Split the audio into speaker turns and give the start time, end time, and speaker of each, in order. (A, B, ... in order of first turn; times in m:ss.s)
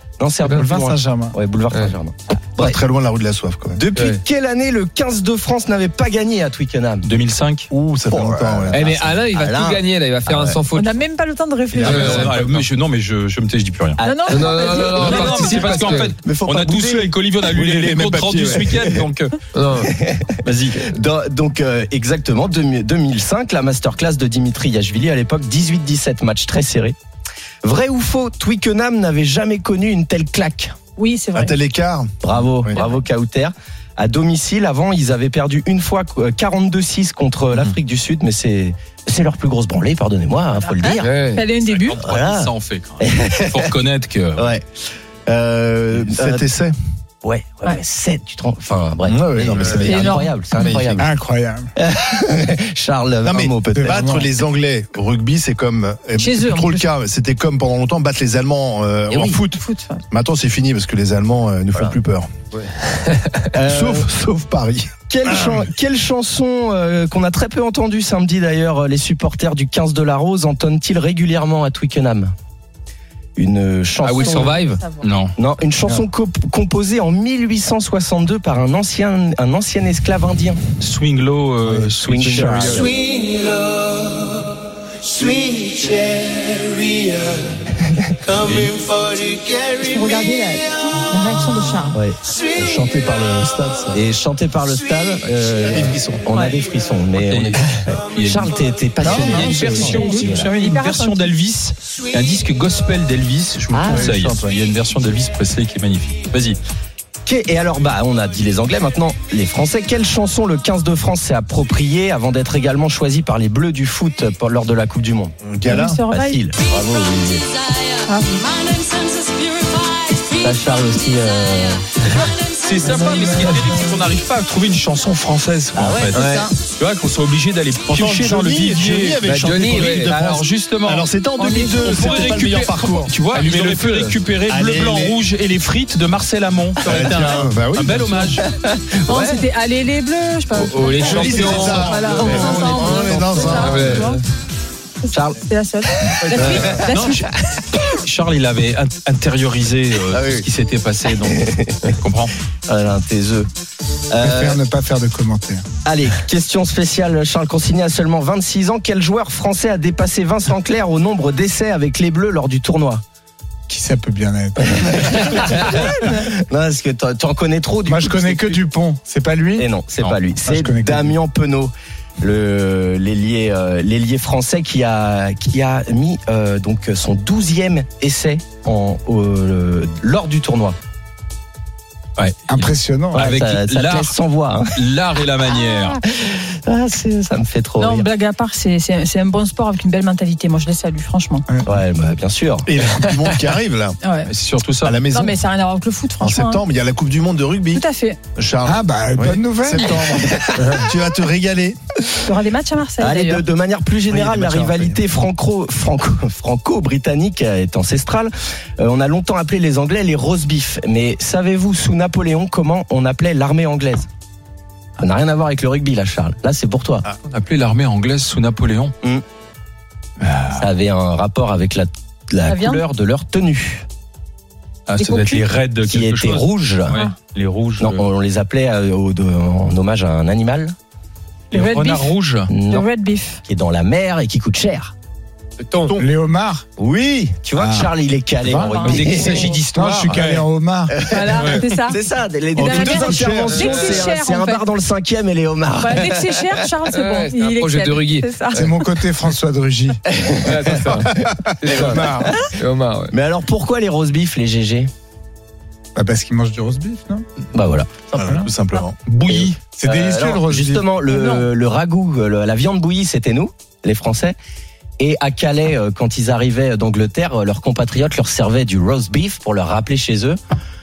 0:00.2-0:02.8 A
0:00.6-0:01.4 B
0:02.6-0:03.8 C
0:03.8-0:07.1 A
0:03.9-0:04.2 D
0:07.0-0:07.7 E
0:07.7-0:09.0 C
0:08.1-0:08.6 B
0:08.7-0:10.9 D
0:08.8-0:09.8 A
0:10.7-0:12.3 F
0:11.7-0:12.6 C
0:11.8-0:14.0 E
0:11.8-0:12.3 D
0:14.0-0:15.0 A
0:14.0-0:15.9 F
0:14.3-0:16.1 D
0:14.8-0:19.4 E
0:16.2-0:17.1 A
0:17.4-0:19.0 C
0:19.5-0:19.9 D
0:19.8-0:27.0 A
0:20.4-0:20.9 E
0:27.6-0:30.8 A
0:31.0-0:31.5 F
0:31.3-0:32.8 C
0:32.2-0:41.2 A
0:40.5-0:42.0 F
0:41.0-0:41.4 D
0:41.6-0:44.5 E
0:42.0-0:43.7 A
0:44.4-0:44.6 A
0:45.3-0:46.4 A
0:46.1-0:46.7 C
0:47.2-0:51.1 A
0:49.0-0:51.0 C
0:49.8-0:50.4 F
0:50.6-0:51.7 B
0:51.8-0:54.1 A
0:53.2-1:02.3 C
0:53.7-0:54.3 B
0:56.2-0:56.8 F
0:59.1-1:00.0 F
1:02.5-1:03.4 D
1:03.5-1:04.1 A
1:03.6-1:05.7 C
1:05.1-1:12.3 A
1:13.4-1:14.6 A
1:14.0-1:14.8 D
1:14.2-1:15.1 F
1:15.0-1:15.3 E
1:15.4-1:20.6 A
1:20.8-1:22.8 E
1:22.0-1:23.0 A
1:22.4-1:22.9 D
1:28.3-1:28.8 E
1:29.7-1:32.0 F
1:31.9-1:32.2 A
1:32.5-1:34.0 C
1:33.9-1:40.5 A
1:35.7-1:36.2 C
1:37.2-1:38.5 E
1:39.0-1:40.2 B
1:39.1-1:46.6 E
1:39.9-1:41.3 F
1:43.7-1:44.4 A
1:43.9-1:44.4 B
1:47.2-1:55.3 A
1:55.4-1:56.0 C
1:55.6-1:56.4 F
1:56.1-1:57.5 A
1:58.0-1:59.5 F
2:00.4-2:02.3 A
2:02.5-2:11.1 E
2:02.8-2:03.9 B
2:05.7-2:06.3 A
2:06.1-2:06.5 D
2:07.9-2:13.2 C
2:09.2-2:10.2 D
2:11.4-2:12.4 F
2:11.8-2:18.4 E
2:13.3-2:14.2 D
2:14.4-2:15.2 C
2:16.8-2:18.3 C
2:18.4-2:19.4 A
2:19.0-2:24.2 F
2:20.5-2:24.2 D
2:20.9-2:24.1 C
2:21.0-2:21.9 E
2:25.0-2:27.3 F
2:25.1-2:25.4 A
2:26.0-2:26.9 A
2:26.2-2:26.8 D
2:26.8-2:32.3 E
2:31.2-2:31.9 A
2:32.7-2:33.5 A
2:34.1-2:34.6 A
2:34.2-2:35.6 B
2:35.8-2:43.0 A
2:43.7-2:45.8 B
2:44.6-2:48.6 A
2:47.8-2:49.7 B
2:49.5-3:00.8 A
2:50.4-2:51.2 B
3:02.2-3:04.1 E
3:02.5-3:03.3 B
3:03.1-3:04.8 A
3:04.7-3:06.0 E
3:06.0-3:08.1 A
3:07.8-3:11.4 F
3:11.6-3:12.7 A
3:12.6-3:14.0 C
3:14.0-3:14.3 F
3:14.2-3:15.0 E
3:14.8-3:15.4 C
3:15.1-3:16.6 F
3:16.2-3:17.8 C
3:17.7-3:18.2 F
3:18.4-3:20.2 C
3:18.6-3:20.8 B
3:20.1-3:20.8 A
3:20.7-3:21.8 C
3:22.2-3:23.4 F
3:23.0-3:34.1 A
3:24.2-3:24.9 B
3:35.0-3:37.0 A
3:37.2-3:38.9 E
3:40.2-3:40.6 E
3:40.6-3:43.8 A
3:42.4-3:42.8 F
3:44.9-3:48.0 E
3:45.0-3:45.5 F
3:45.8-3:47.0 A
3:47.8-3:50.7 A
3:51.5-3:52.5 E
3:51.5-3:53.4 F
3:52.5-3:52.8 A
3:53.4-3:54.9 A
3:55.6-3:56.0 D
3:56.0-3:56.6 B
3:56.8-3:59.6 A
3:57.6-3:58.8 B
3:58.6-3:59.6 F
3:58.8-4:00.4 E
3:59.7-4:01.0 B
4:00.9-4:06.7 A
4:01.1-4:02.0 F
4:01.3-4:01.6 E
4:02.5-4:04.1 C
4:02.5-4:04.6 F
4:05.8-4:08.6 F
4:06.9-4:08.7 D
4:08.5-4:10.0 B
4:10.1-4:12.4 A
4:10.4-4:13.1 D
4:11.6-4:12.3 B
4:13.1-4:14.9 A
4:15.9-4:17.2 B
4:17.5-4:18.2 A
4:18.1-4:19.0 C
4:18.2-4:18.5 B
4:19.0-4:19.6 E
4:19.3-4:24.4 A
4:19.6-4:20.9 B
4:21.1-4:21.5 F
4:25.0-4:30.4 A